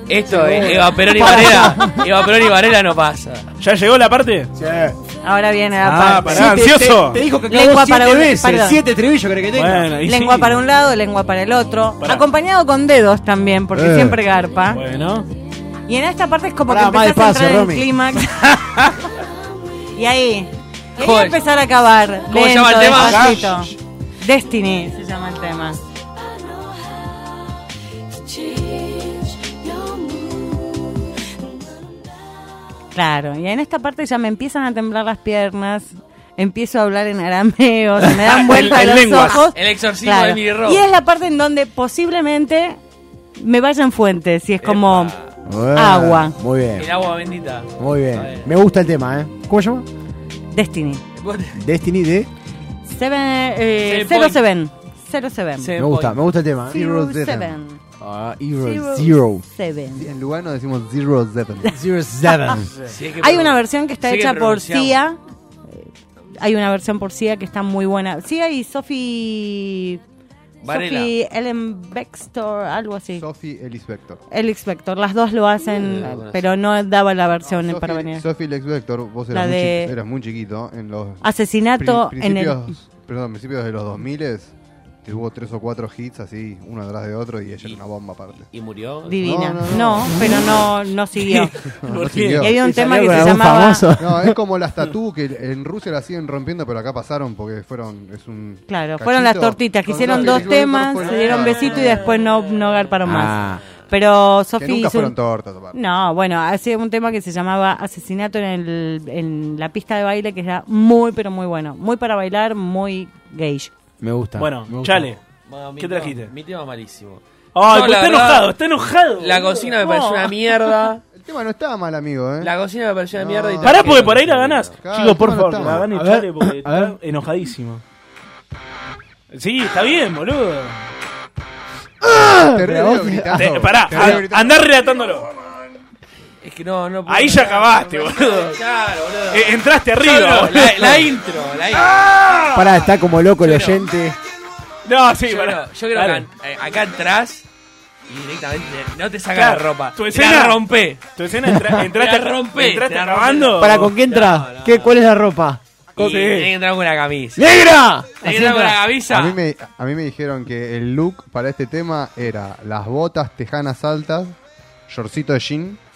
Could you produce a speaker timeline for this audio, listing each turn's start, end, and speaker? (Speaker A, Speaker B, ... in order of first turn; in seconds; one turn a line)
Speaker A: 0.1-3.5
Speaker B: 0.3-2.0
Speaker C: 3.6-4.5
Speaker B: 4.5-5.0
Speaker D: 5.2-6.6
Speaker C: 5.8-7.2
Speaker B: 6.2-9.9
Speaker D: 7.5-8.8
Speaker C: 9.6-10.6
Speaker D: 10.1-14.8
Speaker B: 13.7-14.2
Speaker C: 14.7-15.3
Speaker D: 15.9-18.9
Speaker B: 16.7-17.9
Speaker D: 19.9-25.8
Speaker A: 21.0-21.4
Speaker A: 22.3-23.5
Speaker C: 22.9-23.5
Speaker D: 32.9-42.8
Speaker C: 38.1-39.5
Speaker A: 39.4-40.8
Speaker D: 43.4-45.1
Speaker A: 44.6-45.3
Speaker B: 45.5-46.9
Speaker D: 45.8-46.4
Speaker A: 46.8-48.5
Speaker B: 47.8-49.9
Speaker D: 50.5-51.0
Speaker A: 51.2-51.6
Speaker B: 51.6-52.3
Speaker D: 52.9-55.7
Speaker A: 53.8-54.4
Speaker A: 55.6-56.2
Speaker B: 55.8-56.8
Speaker D: 56.7-57.8
Speaker E: 56.7-57.5
Speaker B: 58.0-59.4
Speaker D: 58.6-60.1
Speaker E: 60.0-61.8
Speaker B: 61.7-62.7
Speaker C: 62.7-63.0
Speaker A: 62.9-65.0
Speaker D: 63.2-65.2
Speaker D: 65.7-70.0
Speaker A: 70.6-71.1
Speaker D: 70.7-73.2
Speaker E: 73.2-74.2
Speaker D: 74.3-78.2
Speaker A: 75.7-76.5
Speaker E: 77.5-81.2
Speaker D: 79.3-79.9
Speaker D: 81.2-82.6
Speaker E: 81.8-84.5
Speaker E: 85.0-88.5
Speaker A: 88.5-89.2
Speaker D: 89.1-91.5
Speaker E: 89.2-90.3
Speaker C: 91.2-92.5
Speaker E: 91.8-92.5
Speaker D: 92.4-93.9
Speaker B: 92.4-94.4
Speaker E: 94.0-102.2
Speaker D: 98.7-105.2
Speaker B: 103.0-103.6
Speaker E: 104.6-105.8
Speaker D: 105.7-113.7
Speaker B: 114.0-115.1
Speaker C: 114.4-115.2
Speaker A: 115.5-118.5
Speaker C: 115.8-116.3
Speaker C: 117.5-119.7
Speaker A: 119.2-121.0
Speaker D: 119.8-120.3
Speaker E: 121.1-122.5
Speaker A: 122.4-124.8
Speaker E: 123.2-124.1
Speaker C: 123.6-127.8
Speaker E: 124.8-125.9
Speaker B: 125.9-126.9
Speaker C: 129.3-130.8
Speaker B: 132.0-133.5
Speaker E: 132.1-134.9
Speaker C: 133.3-135.3
Speaker A: 136.4-142.1
Speaker C: 137.1-138.6
Speaker C: 139.3-141.1
Speaker C: 141.8-142.7
Speaker B: 142.5-144.2
Speaker A: 143.4-143.8
Speaker C: 144.8-146.2
Speaker A: 145.3-147.5
Speaker A: 148.1-151.0
Speaker C: 149.3-150.6
Speaker C: 151.2-153.9
Speaker B: 151.5-151.8
Speaker A: 151.9-154.9
Speaker B: 153.6-155.6
Speaker C: 156.0-156.5
Speaker A: 156.0-157.5
Speaker B: 157.4-158.8
Speaker A: 158.2-159.4
Speaker E: 159.1-164.3
Speaker E: 164.9-165.8